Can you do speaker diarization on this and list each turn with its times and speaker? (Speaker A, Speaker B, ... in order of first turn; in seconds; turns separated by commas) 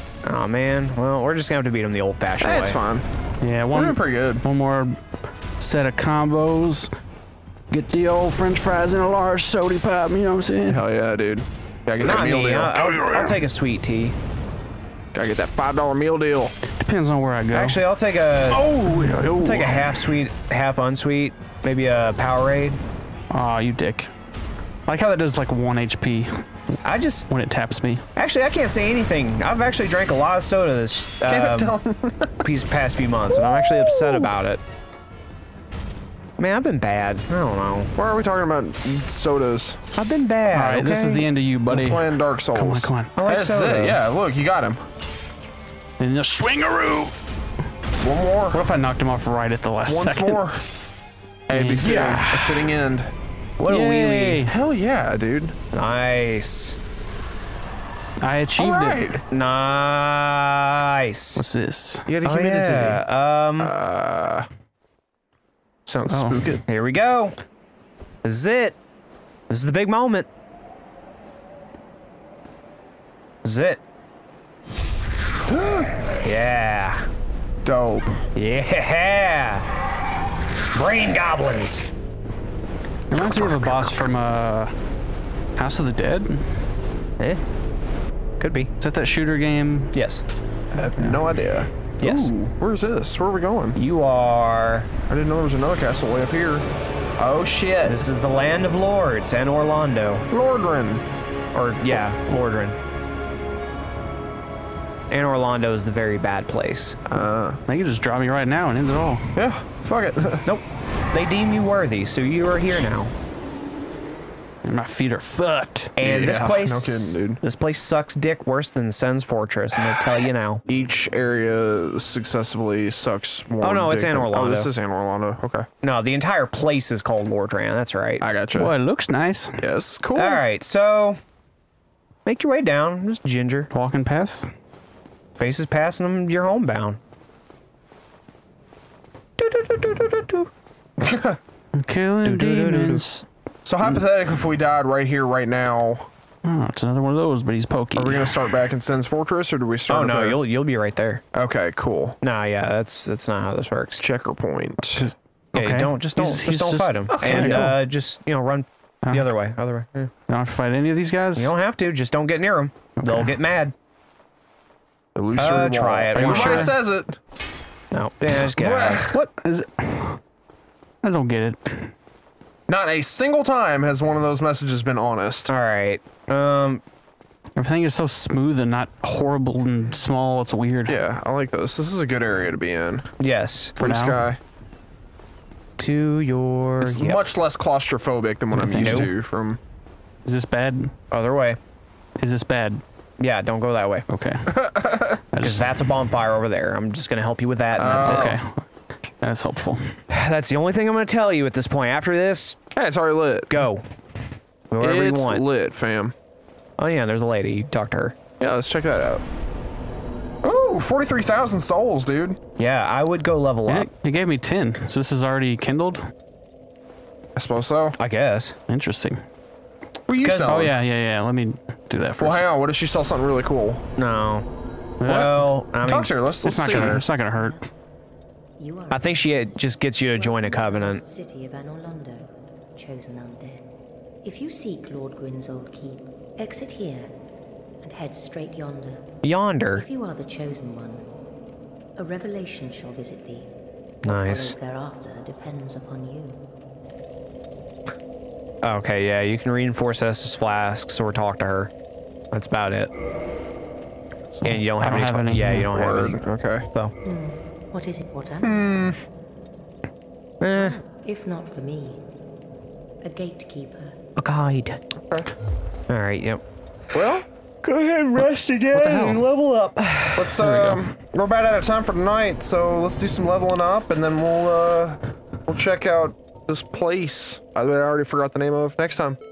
Speaker A: 0.2-2.8, Speaker B: 2.4-3.1, Speaker C: 3.4-5.0, Speaker B: 3.7-4.4, Speaker C: 5.6-6.9, Speaker C: 7.7-10.8, Speaker B: 10.7-12.8, Speaker A: 12.0-14.2, Speaker C: 12.7-13.4, Speaker B: 15.1-16.6, Speaker C: 16.7-17.8, Speaker A: 17.5-18.6, Speaker C: 18.5-20.1, Speaker A: 19.3-22.8, Speaker C: 23.3-24.1, Speaker C: 24.9-26.4, Speaker A: 26.8-27.3, Speaker C: 27.3-28.0, Speaker A: 28.1-31.8, Speaker B: 31.3-32.4, Speaker A: 32.4-34.6, Speaker A: 36.4-37.9, Speaker B: 38.0-39.8, Speaker A: 40.0-41.2, Speaker C: 40.5-43.1, Speaker B: 41.7-44.8, Speaker A: 43.1-44.0, Speaker C: 46.0-47.1, Speaker B: 48.0-48.6, Speaker C: 48.5-50.4, Speaker B: 49.9-50.6, Speaker B: 51.5-53.1, Speaker C: 51.5-52.8, Speaker A: 53.6-54.4, Speaker C: 53.6-54.5, Speaker B: 54.5-55.5, Speaker A: 55.7-56.8, Speaker C: 58.2-59.1, Speaker B: 58.6-59.2, Speaker A: 59.3-61.4, Speaker C: 61.4-62.1, Speaker B: 62.1-63.0, Speaker A: 62.2-63.7, Speaker B: 63.6-64.5, Speaker B: 65.8-66.6, Speaker C: 66.1-66.6, Speaker A: 66.7-67.3, Speaker A: 68.2-68.8, Speaker A: 69.5-70.3, Speaker A: 73.4-73.8, Speaker B: 75.5-75.9, Speaker A: 76.2-77.0, Speaker B: 77.6-78.2, Speaker A: 78.3-79.7, Speaker A: 80.7-81.8, Speaker C: 83.1-84.7, Speaker A: 83.2-84.1, Speaker C: 85.5-86.6, Speaker A: 88.4-88.7, Speaker C: 88.8-89.9, Speaker A: 89.9-90.2, Speaker B: 90.7-93.8, Speaker A: 92.0-92.3, Speaker A: 93.8-94.9, Speaker B: 95.1-96.7, Speaker B: 97.2-98.0, Speaker A: 97.8-100.3, Speaker B: 100.3-101.0, Speaker A: 101.5-102.8, Speaker A: 105.1-107.0, Speaker B: 107.1-107.6, Speaker C: 107.7-109.4, Speaker B: 109.3-110.5, Speaker A: 110.4-113.1, Speaker C: 114.6-115.9, Speaker A: 116.0-120.6, Speaker B: 116.0-117.4, Speaker B: 120.7-125.7, Speaker A: 123.6-124.7, Speaker A: 125.8-128.2, Speaker B: 128.2-128.7, Speaker C: 128.5-129.6, Speaker B: 129.6-130.4, Speaker A: 130.2-131.2, Speaker A: 132.2-133.7, Speaker C: 133.7-134.5, Speaker A: 135.3-137.0, Speaker A: 139.4-140.5, Speaker B: 141.0-141.4, Speaker C: 141.7-143.2, Speaker A: 142.2-143.1, Speaker B: 143.6-146.1, Speaker C: 146.4-148.4, Speaker B: 147.9-150.4, Speaker A: 149.9-151.2, Speaker B: 151.3-152.2, Speaker A: 152.2-154.0, Speaker B: 154.0-155.1, Speaker A: 154.9-160.1, Speaker C: 155.5-157.8, Speaker B: 157.1-157.7, Speaker C: 159.0-159.3, Speaker C: 160.3-161.5, Speaker A: 161.4-163.7, Speaker C: 163.0-163.3, Speaker B: 165.1-167.2, Speaker A: 165.4-166.7, Speaker C: 166.1-166.7, Speaker A: 167.9-169.1, Speaker B: 168.5-169.2, Speaker C: 169.1-170.2, Speaker C: 171.0-171.9, Speaker B: 172.7-175.5, Speaker A: 175.5-176.8, Speaker C: 177.6-181.0, Speaker B: 180.9-183.1, Speaker A: 183.2-183.8, Speaker C: 183.8-184.3, Speaker B: 183.8-184.4, Speaker A: 185.8-187.2, Speaker B: 186.8-189.6, Speaker C: 188.5-189.1, Speaker A: 188.8-189.1, Speaker C: 190.2-190.9, Speaker A: 191.1-191.6, Speaker C: 192.2-192.8, Speaker A: 193.2-194.1, Speaker C: 194.1-195.8, Speaker B: 194.5-195.2, Speaker A: 195.4-198.3, Speaker B: 197.8-198.4, Speaker C: 197.9-198.7, Speaker C: 199.2-199.9, Speaker A: 200.1-202.6, Speaker B: 202.7-203.5, Speaker A: 203.5-203.8, Speaker A: 204.7-205.4, Speaker B: 204.8-206.1, Speaker A: 206.8-208.2, Speaker B: 208.4-209.2, Speaker B: 210.4-212.4, Speaker A: 212.6-213.9, Speaker C: 213.7-216.1, Speaker B: 217.3-218.0, Speaker A: 218.0-218.6, Speaker C: 218.7-219.2, Speaker B: 220.1-220.7, Speaker A: 220.2-220.7, Speaker C: 220.5-222.4, Speaker B: 222.2-223.8, Speaker A: 224.0-224.4, Speaker C: 225.0-225.6, Speaker A: 225.0-226.1, Speaker B: 225.8-227.1, Speaker C: 226.4-227.7, Speaker D: 227.2-227.6, Speaker D: 228.6-233.7, Speaker A: 228.9-231.0, Speaker D: 234.2-237.2, Speaker D: 237.8-239.1, Speaker A: 239.2-239.8, Speaker D: 239.7-241.2, Speaker D: 241.9-243.5, Speaker A: 244.0-244.6, Speaker D: 244.1-246.4, Speaker A: 248.6-251.7, Speaker A: 252.3-252.9, Speaker C: 254.4-255.7, Speaker A: 254.4-256.9, Speaker B: 255.7-256.7, Speaker D: 257.0-258.5, Speaker B: 258.4-259.0, Speaker A: 260.4-260.8, Speaker D: 260.5-262.0, Speaker D: 263.0-264.0, Speaker A: 264.2-264.8, Speaker A: 265.9-266.4, Speaker B: 266.9-267.2, Speaker A: 267.6-270.8, Speaker C: 268.7-269.2, Speaker B: 270.1-279.2